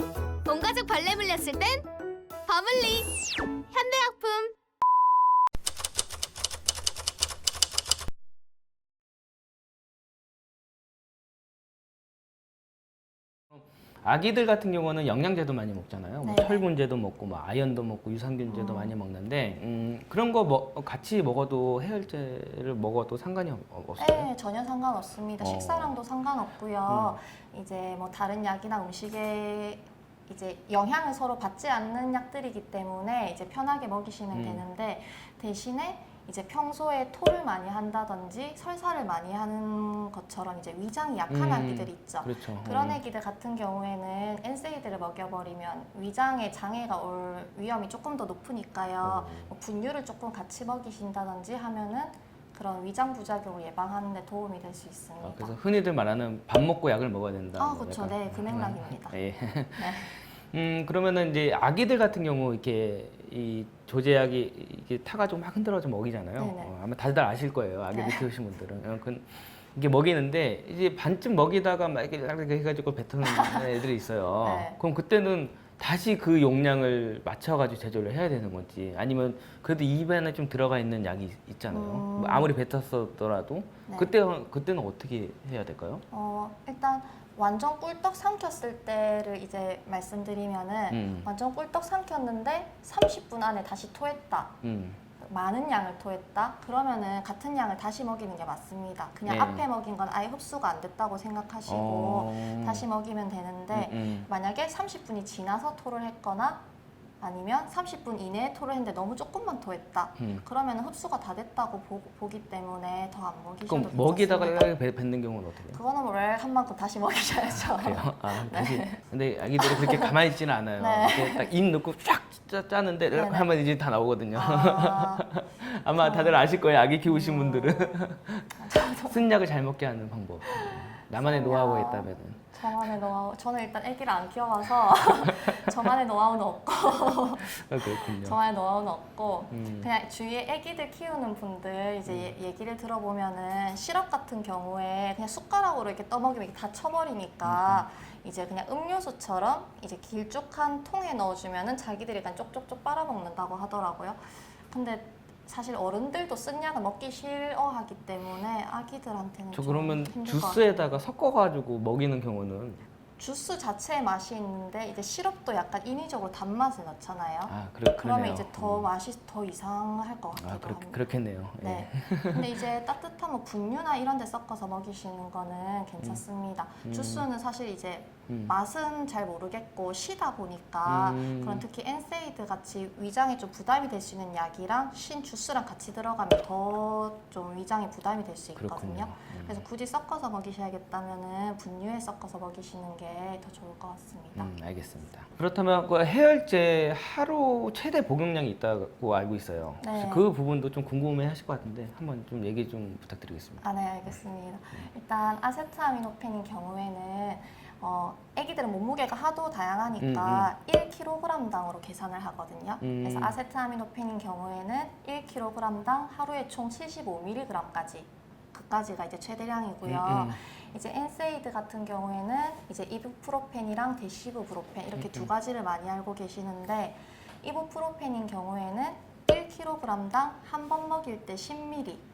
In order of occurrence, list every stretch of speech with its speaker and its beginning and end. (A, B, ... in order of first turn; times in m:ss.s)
0:00.4-0:01.9 A
0:02.5-0:03.1 A
0:03.7-0:04.5 A
0:13.5-0:24.3 B
0:16.2-0:16.7 C
0:18.5-0:19.0 C
0:24.0-0:55.6 C
0:25.4-0:26.0 B
0:26.9-0:27.2 B
0:34.3-0:34.6 B
0:41.3-0:43.0 B
0:49.0-0:49.5 B
0:55.2-1:26.0 B
0:57.6-0:59.2 C
0:59.8-1:00.1 C
1:06.4-1:06.7 C
1:07.9-1:08.3 C
1:13.2-1:13.7 C
1:14.4-1:14.8 C
1:21.7-1:22.5 C
1:23.9-1:24.1 C
1:26.1-1:34.6 C
1:30.9-1:31.3 B
1:34.6-1:35.0 B
1:35.2-1:46.6 C
1:39.2-1:39.7 B
1:41.7-1:42.9 B
1:43.7-1:44.3 B
1:47.2-1:54.8 C
1:50.2-1:50.4 B
1:53.7-1:55.8 B
1:55.7-1:59.0 C
1:57.5-2:12.9 B
1:59.6-2:00.1 C
2:00.8-2:01.5 C
2:03.1-2:03.5 C
2:04.3-2:05.2 C
2:06.0-2:06.4 C
2:07.0-2:08.0 C
2:08.5-2:09.2 C
2:10.5-2:40.8 C
2:17.1-2:18.4 B
2:19.5-2:19.9 B
2:22.1-2:22.3 B
2:27.4-2:27.9 B
2:39.5-2:42.8 B
2:43.2-2:51.1 C
2:47.5-2:48.9 B
2:50.4-2:52.5 B
2:51.6-3:14.5 C
2:56.8-2:57.3 B
2:58.3-2:58.5 B
3:00.8-3:01.6 B
3:08.6-3:09.6 B
3:14.4-3:23.6 B
3:19.8-3:20.3 C
3:23.6-3:52.0 C
3:30.0-3:30.5 B
3:32.8-3:33.4 B
3:39.8-3:40.4 B
3:45.0-3:45.3 B